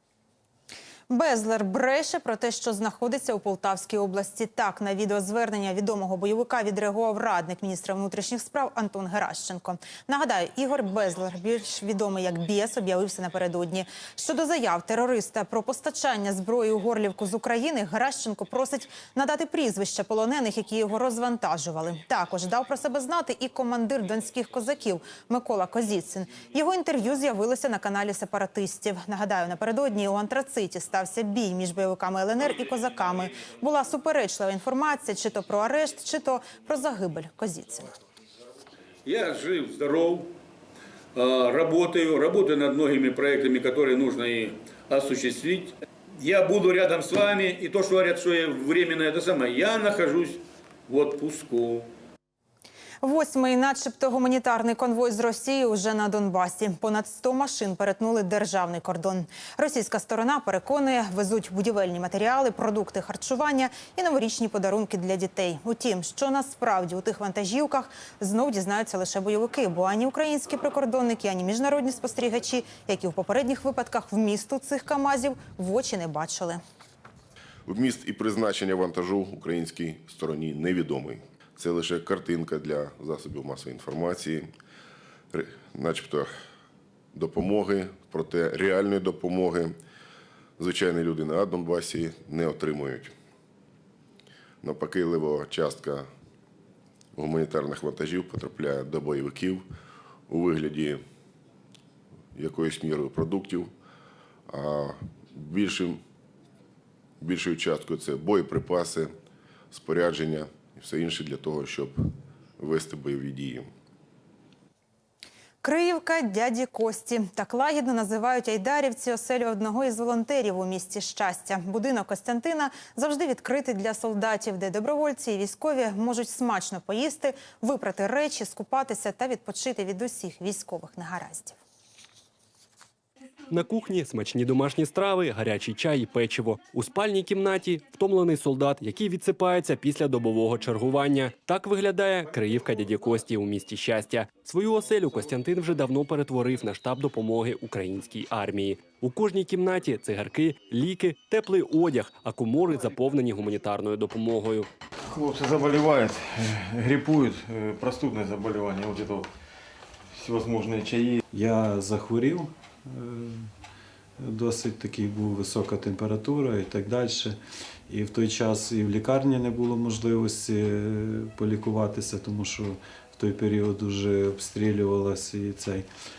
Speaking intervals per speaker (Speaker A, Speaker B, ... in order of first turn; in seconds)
Speaker A: 1.1-37.9, 53.0-76.6, 115.6-131.6
Speaker B: 39.0-40.3, 41.1-51.8
Speaker C: 77.7-84.5, 85.3-86.3, 87.1-89.8, 90.6-93.1, 94.6-96.1, 97.2-99.7, 100.3-101.0, 102.3-103.7, 104.5-106.0, 107.2-109.1, 109.7-112.1, 112.6-113.7
Speaker D: 133.5-154.7
Speaker E: 155.1-159.3, 160.1-161.2
Speaker F: 161.3-163.5, 164.2-167.4, 167.9-175.9